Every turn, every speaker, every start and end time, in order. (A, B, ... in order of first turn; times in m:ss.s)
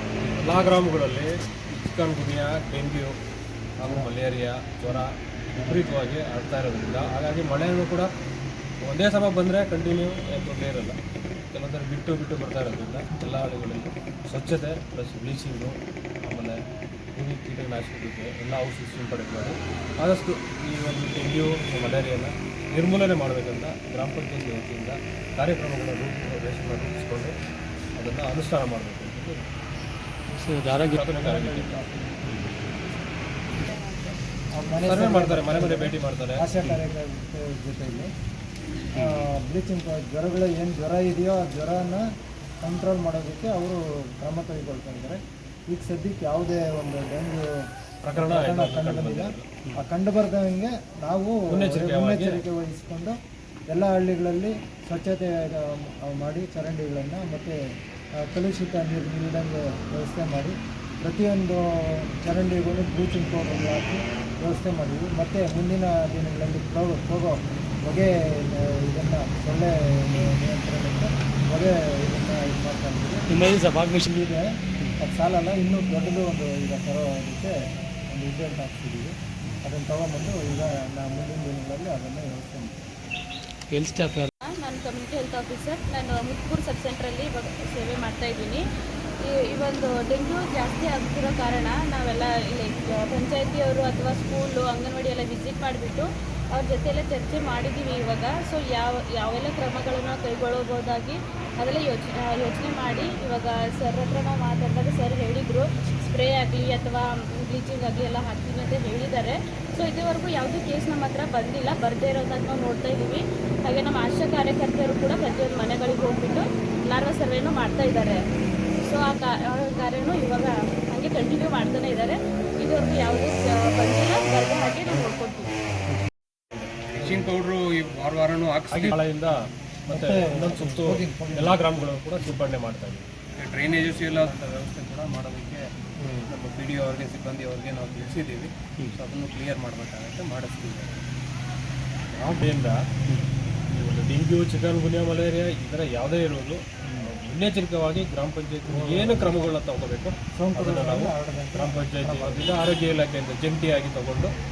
0:00.4-0:03.2 A
0:03.8-0:08.1 A
0:03.8-0:04.1 B
0:05.6-0:05.9 B
0:08.9-0:11.0 A
0:11.5-0:16.6 A
0:17.2-0:27.4 A
0:28.0-0:29.5 A
0:30.4-0:31.0 C
0:30.9-0:31.8 A
0:31.1-0:32.3 B
0:32.3-0:32.6 C
0:33.6-0:34.2 D
0:34.6-0:38.1 B
0:34.8-0:36.5 A
0:39.0-0:42.1 B
0:42.6-0:53.2 B
0:48.0-0:49.6 A
0:51.5-0:52.4 A
0:53.7-0:57.6 B
0:58.2-1:13.3 B
1:13.3-1:14.1 C
1:14.1-1:17.6 B
1:18.1-1:22.8 B
1:23.7-1:24.3 C
1:24.4-1:28.6 D
1:29.2-1:58.2 D
1:58.8-2:05.5 D
2:06.5-2:07.2 A
2:06.9-2:09.0 E
2:08.7-2:13.1 A
2:09.9-2:11.7 B
2:13.4-2:15.7 E
2:16.0-2:16.3 A
2:16.3-2:21.1 E
2:18.8-2:19.0 C
2:22.1-2:22.8 A
2:23.7-2:34.3 A
2:28.7-2:29.5 B
2:30.4-2:32.5 B